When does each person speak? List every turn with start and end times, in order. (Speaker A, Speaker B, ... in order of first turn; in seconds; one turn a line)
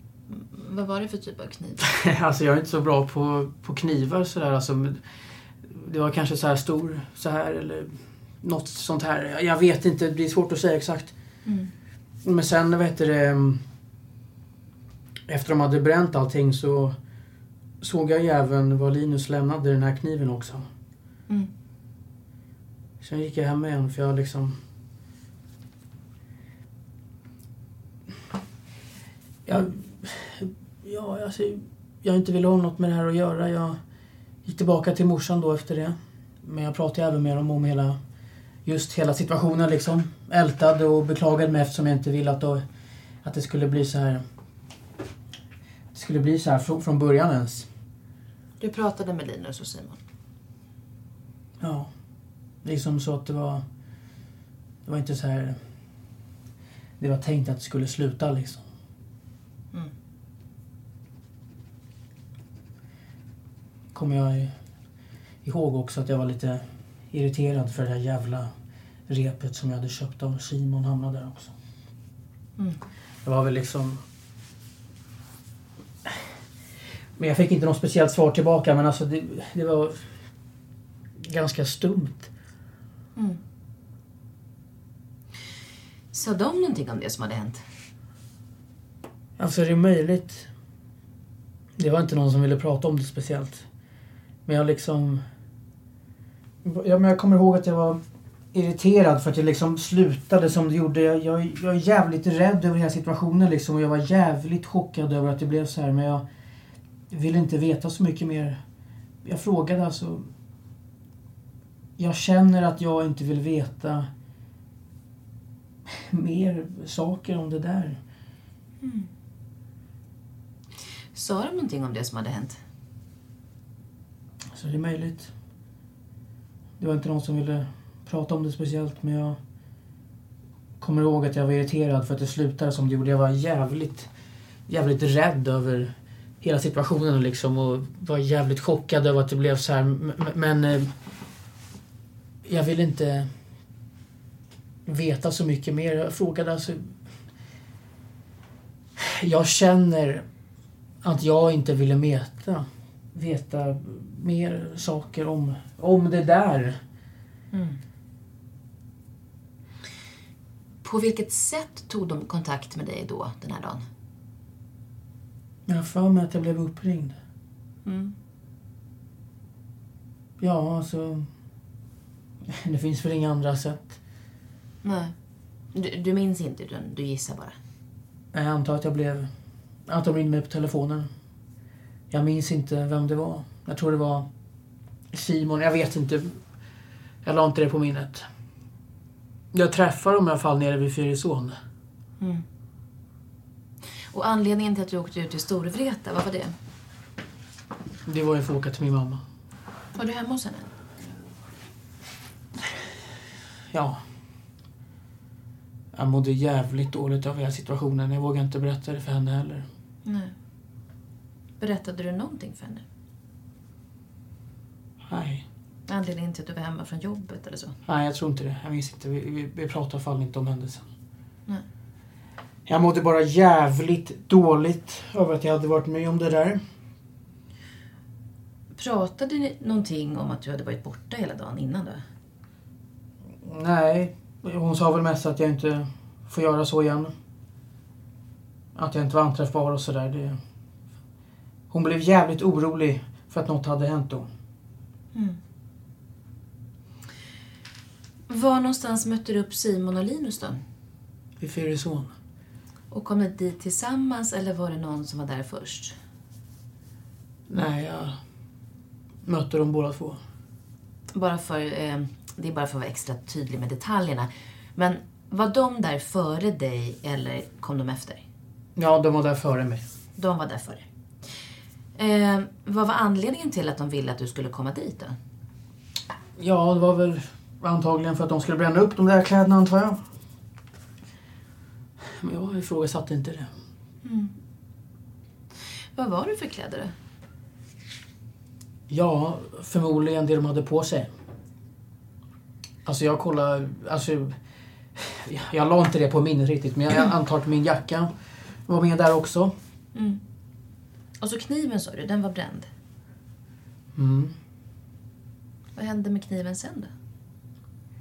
Speaker A: 0.3-1.8
Speaker B: 1.8-5.0
Speaker B: 5.6-11.1
Speaker A: 11.4-11.7
Speaker B: 12.2-13.6
Speaker B: 15.3-16.9
Speaker B: 17.8-20.6
Speaker B: 23.0-24.6
Speaker B: 29.4-33.8
Speaker B: 34.4-38.0
Speaker B: 38.6-42.6
Speaker B: 43.2-44.2
Speaker B: 45.9-47.7
Speaker A: 48.6-50.0
Speaker B: 51.6-51.9
Speaker B: 52.6-53.6
Speaker B: 54.8-55.6
Speaker B: 57.0-58.6
Speaker B: 63.9-64.5
Speaker B: 65.4-68.5
Speaker B: 69.1-71.5
Speaker B: 73.2-74.0
Speaker B: 77.2-80.0
Speaker B: 81.2-82.3
Speaker A: 86.1-87.6
Speaker B: 89.4-90.5
Speaker B: 91.8-93.6
Speaker B: 94.5-95.2
Speaker B: 96.6-98.0
Speaker B: 98.5-106.2
Speaker B: 107.1-108.6
Speaker B: 109.2-110.3
Speaker B: 112.0-114.1
Speaker B: 115.9-118.0
Speaker A: 118.8-119.1
Speaker A: 121.1-122.6
Speaker B: 124.5-125.3
Speaker B: 126.8-129.4
Speaker B: 130.8-134.1
Speaker B: 134.7-140.9
Speaker B: 142.4-143.3
Speaker B: 144.8-147.0
Speaker B: 149.0-150.2
Speaker B: 151.0-156.8
Speaker A: 157.5-157.8
Speaker A: 160.8-163.8
Speaker B: 165.7-167.2
Speaker A: 167.8-168.1
Speaker B: 170.4-171.3
Speaker B: 172.5-174.0
Speaker A: 174.8-175.1
Speaker A: 175.7-177.6
Speaker B: 178.3-179.3
Speaker B: 179.8-181.1
Speaker B: 182.1-184.3
Speaker B: 185.1-186.4
Speaker B: 187.2-188.3
Speaker B: 189.5-191.6
Speaker A: 192.2-192.4
Speaker A: 194.1-196.5
Speaker B: 198.0-199.2
Speaker A: 199.9-200.7
Speaker B: 203.7-204.0
Speaker B: 205.9-209.7
Speaker A: 210.0-210.3
Speaker A: 211.6-212.8
Speaker B: 215.0-215.4
Speaker A: 215.9-217.8
Speaker B: 217.8-220.8
Speaker B: 222.7-226.6
Speaker A: 228.7-232.0
Speaker B: 233.4-237.1
Speaker B: 238.7-240.4
Speaker B: 241.7-244.3
Speaker A: 245.1-245.4
Speaker A: 248.3-250.6
Speaker B: 251.4-252.1
Speaker A: 252.9-256.0
Speaker B: 257.5-258.2
Speaker B: 259.2-260.2
Speaker A: 261.1-268.2
Speaker B: 268.8-269.8
Speaker A: 270.2-271.4
Speaker A: 271.9-275.2
Speaker B: 276.4-280.0
Speaker B: 282.0-283.5
Speaker A: 284.0-284.3
Speaker A: 285.9-286.9
Speaker B: 288.9-291.1
Speaker B: 292.8-294.4
Speaker B: 294.9-298.1
Speaker B: 298.6-299.5
Speaker A: 299.9-300.2
Speaker A: 301.2-302.7
Speaker B: 303.9-304.3
Speaker A: 305.7-306.9